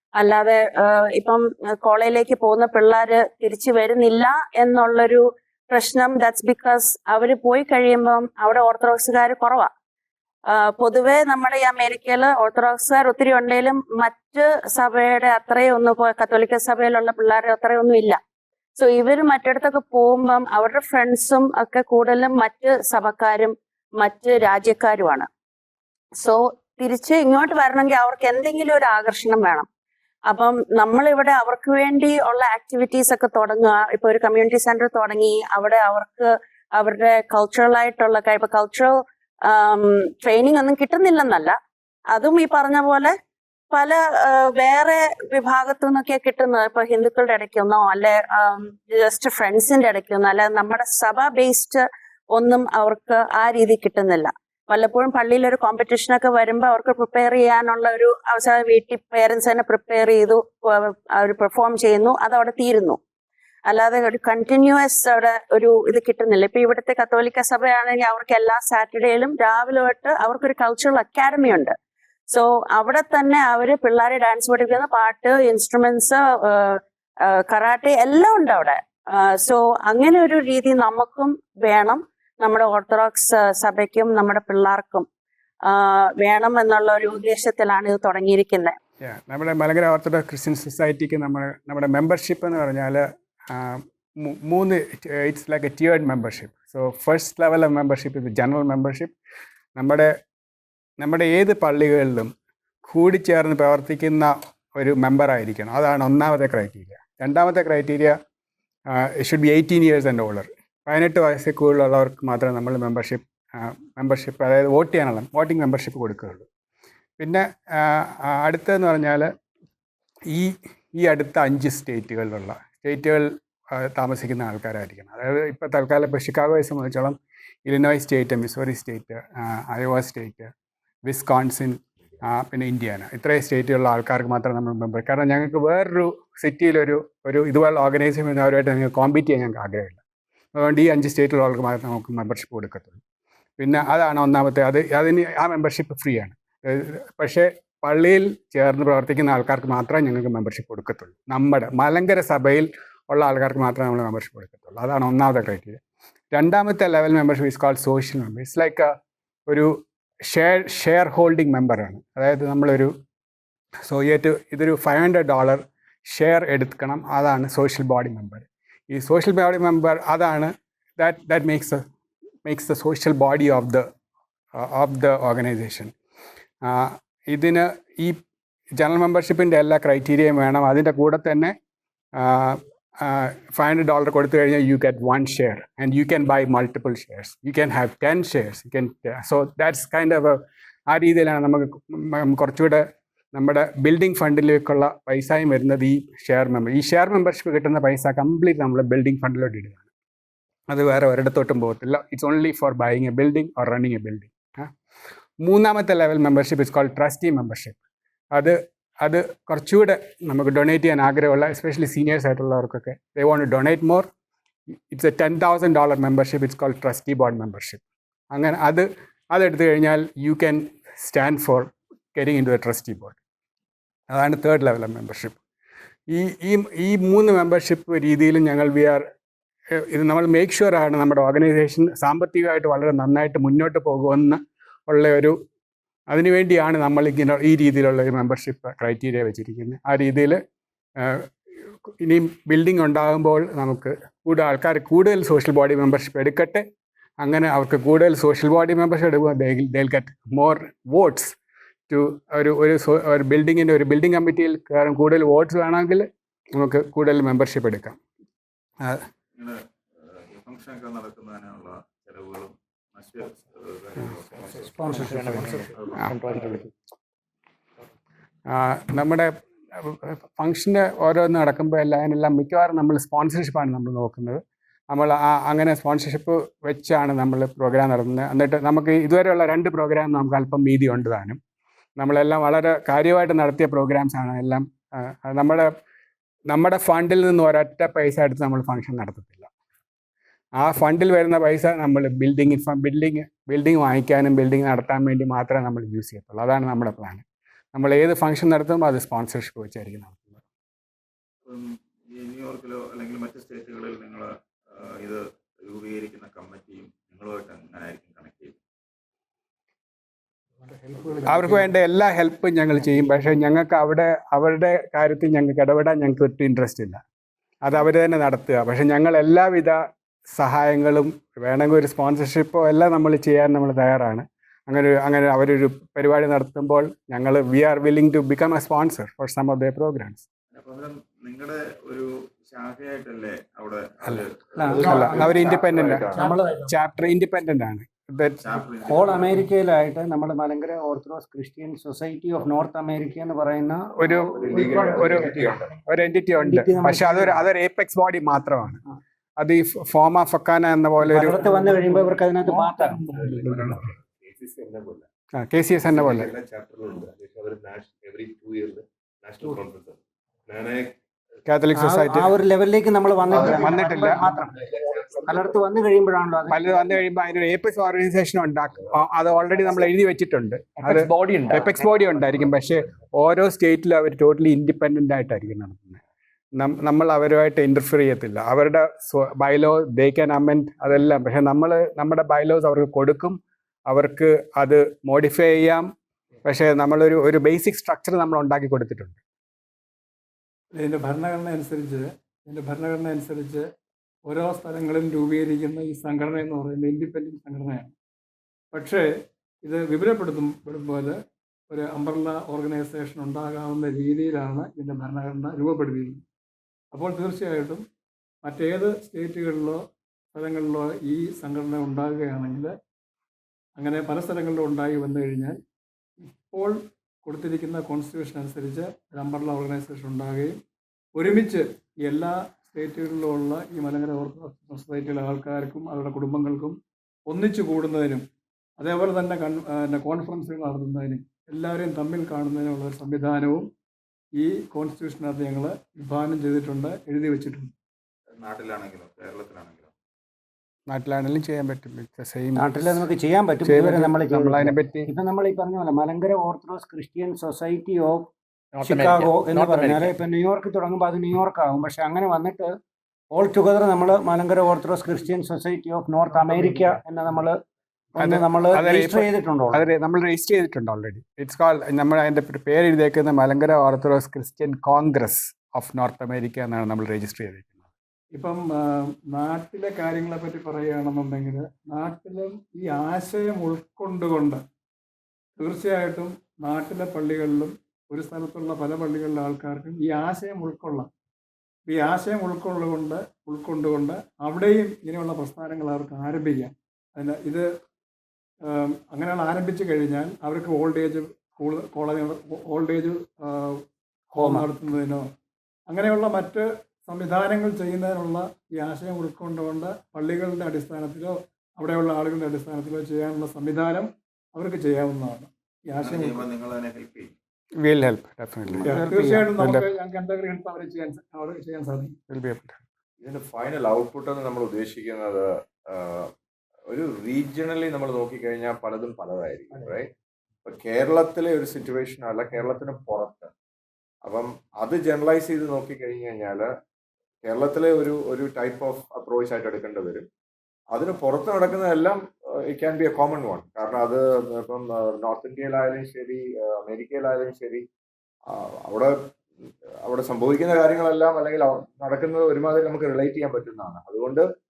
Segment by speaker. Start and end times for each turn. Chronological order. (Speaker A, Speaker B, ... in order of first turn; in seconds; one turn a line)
Speaker A: 0.2-9.7
Speaker A: 10.5-18.2
Speaker A: 18.8-25.3
Speaker A: 26.2-29.7
Speaker A: 30.3-41.6
Speaker A: 42.1-43.1
Speaker A: 43.7-63.0
Speaker A: 63.7-71.7
Speaker A: 72.3-85.1
Speaker A: 85.6-88.7
Speaker B: 89.0-99.1
Speaker B: 99.8-100.2
Speaker B: 101.0-102.3
Speaker B: 102.8-108.2
Speaker B: 108.9-116.5
Speaker B: 117.2-119.3
Speaker B: 120.3-130.5
Speaker B: 131.1-140.0
Speaker B: 140.6-143.0
Speaker B: 143.6-155.8
Speaker B: 156.3-158.9
Speaker B: 159.5-162.9
Speaker B: 163.9-171.8
Speaker B: 172.4-173.9
Speaker B: 174.6-175.9
Speaker B: 176.6-178.2
Speaker B: 178.8-181.5
Speaker B: 182.2-199.9
Speaker B: 200.7-204.7
Speaker B: 205.4-207.8
Speaker B: 208.3-214.1
Speaker B: 214.9-217.8
Speaker B: 218.3-223.2
Speaker B: 224.1-225.4
Speaker B: 226.1-229.1
Speaker B: 229.7-235.4
Speaker B: 236.1-240.4
Speaker B: 241.0-241.3
Speaker B: 242.0-246.6
Speaker B: 247.2-251.4
Speaker B: 251.9-258.0
Speaker C: 259.4-266.1
Speaker D: 264.7-265.7
Speaker B: 268.5-281.4
Speaker B: 282.0-285.7
Speaker B: 286.5-289.5
Speaker B: 290.6-297.2
Speaker B: 297.7-300.4
Speaker C: 301.4-308.6
Speaker E: 310.6-311.7
Speaker B: 311.3-317.0
Speaker B: 317.6-319.8
Speaker B: 320.3-330.2
Speaker C: 330.5-335.6
Speaker B: 334.1-338.4
Speaker F: 334.6-336.4
Speaker D: 336.1-336.7
Speaker C: 338.4-339.5
Speaker D: 338.9-345.1
Speaker B: 344.0-348.8
Speaker F: 344.1-345.7
Speaker D: 346.4-347.4
Speaker B: 349.4-351.4
Speaker D: 351.0-353.3
Speaker B: 353.2-353.8
Speaker B: 355.3-356.3
Speaker B: 361.4-362.4
Speaker D: 361.7-366.7
Speaker B: 363.3-364.3
Speaker B: 366.5-376.0
Speaker B: 376.6-385.9
Speaker B: 386.4-389.2
Speaker E: 390.8-393.7
Speaker E: 394.3-397.9
Speaker E: 398.7-399.1
Speaker E: 399.6-401.2
Speaker E: 401.7-406.2
Speaker E: 406.9-407.8
Speaker E: 408.4-409.8
Speaker E: 410.3-412.7
Speaker E: 413.8-415.6
Speaker E: 416.2-420.6
Speaker E: 421.2-426.8
Speaker E: 427.3-428.3
Speaker E: 428.8-433.7
Speaker E: 434.4-437.7
Speaker C: 438.3-439.9
Speaker B: 440.9-443.1
Speaker D: 442.6-452.7
Speaker B: 443.6-445.1
Speaker C: 448.9-450.1
Speaker D: 453.3-457.6
Speaker D: 458.1-459.9
Speaker B: 458.2-467.9
Speaker E: 468.3-474.6
Speaker E: 475.6-481.1
Speaker E: 481.9-487.7
Speaker E: 488.7-493.8
Speaker D: 494.4-494.7
Speaker E: 494.4-495.3
Speaker E: 495.9-506.5
Speaker C: 506.0-507.3
Speaker B: 507.8-509.9
Speaker D: 508.8-509.5
Speaker E: 508.9-512.2
Speaker B: 512.3-512.8
Speaker F: 513.2-516.3
Speaker F: 516.9-520.1
Speaker F: 520.6-523.5
Speaker F: 524.2-526.7
Speaker F: 527.5-530.3
Speaker F: 530.9-537.9
Speaker F: 538.5-539.3
Speaker F: 540.0-544.5